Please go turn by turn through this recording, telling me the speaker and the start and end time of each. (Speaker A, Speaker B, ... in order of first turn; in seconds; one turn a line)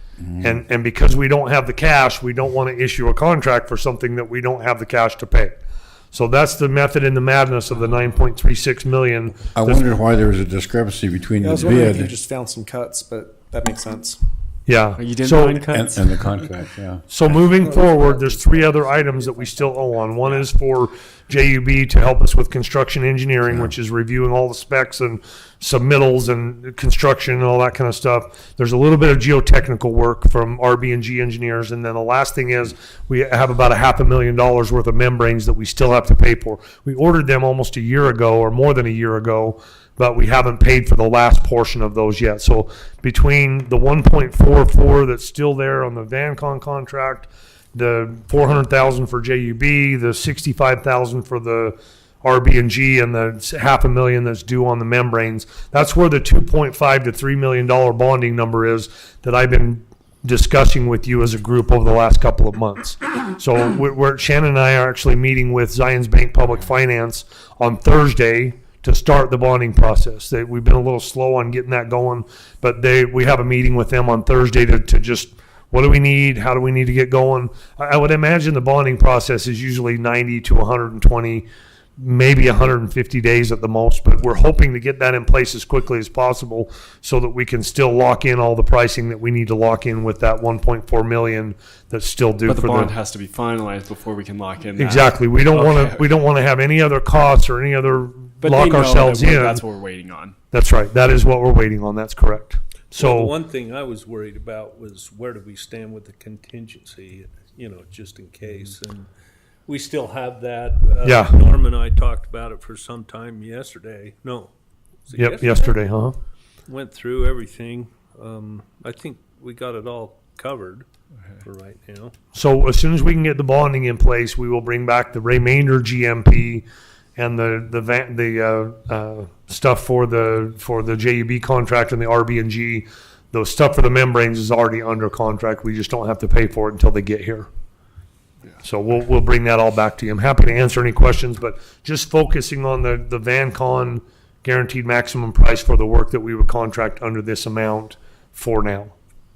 Speaker A: 0.2-0.6
Speaker B: 0.4-5.5
Speaker B: 6.1-9.9
Speaker A: 9.6-12.1
Speaker C: 11.4-14.2
Speaker B: 14.7-15.7
Speaker D: 15.0-16.4
Speaker A: 15.7-17.1
Speaker B: 17.1-81.5
Speaker C: 17.4-20.3
Speaker B: 82.0-92.9
Speaker D: 92.5-96.1
Speaker B: 94.8-99.6
Speaker D: 98.4-100.4
Speaker B: 100.5-103.3
Speaker E: 103.0-109.1
Speaker E: 109.7-114.5
Speaker B: 111.0-111.4
Speaker E: 115.1-115.8
Speaker B: 115.1-116.2
Speaker E: 116.7-120.9
Speaker E: 121.4-122.1
Speaker B: 122.3-126.7
Speaker B: 127.2-137.5
Speaker B: 138.6-148.9